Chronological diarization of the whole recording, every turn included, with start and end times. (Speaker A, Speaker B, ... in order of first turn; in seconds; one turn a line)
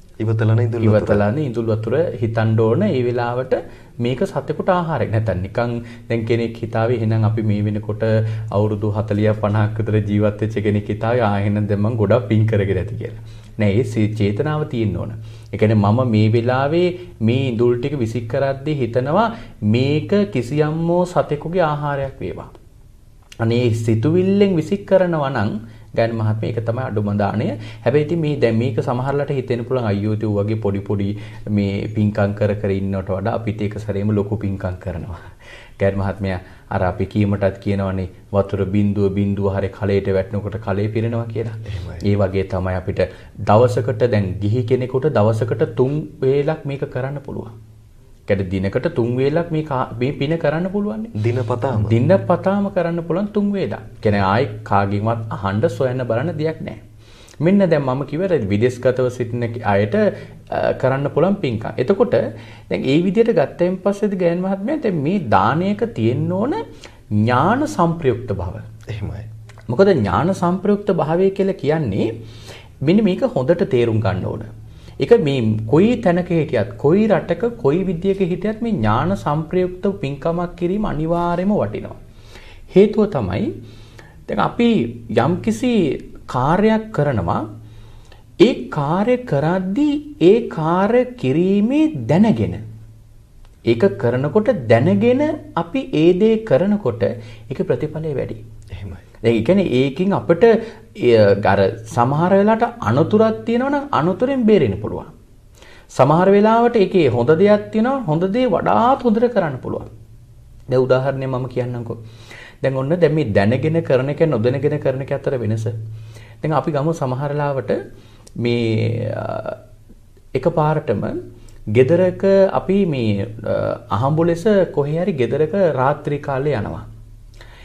Speaker A: 0.2-1.2
Speaker B: 0.8-22.5
Speaker B: 23.4-35.3
Speaker B: 35.8-47.5
Speaker A: 41.7-42.0
Speaker B: 48.3-51.1
Speaker A: 51.1-52.0
Speaker B: 51.7-56.8
Speaker B: 57.4-68.7
Speaker A: 68.9-69.3
Speaker B: 69.7-72.1
Speaker B: 72.8-82.0
Speaker B: 82.7-83.5
Speaker B: 84.3-87.4
Speaker B: 88.4-92.6
Speaker B: 93.7-98.4
Speaker A: 98.7-99.0
Speaker B: 99.2-105.1
Speaker B: 106.0-109.9
Speaker B: 110.7-112.0
Speaker B: 112.6-115.7
Speaker B: 116.4-117.8
Speaker B: 118.4-119.6
Speaker B: 120.3-121.2
Speaker B: 121.8-126.8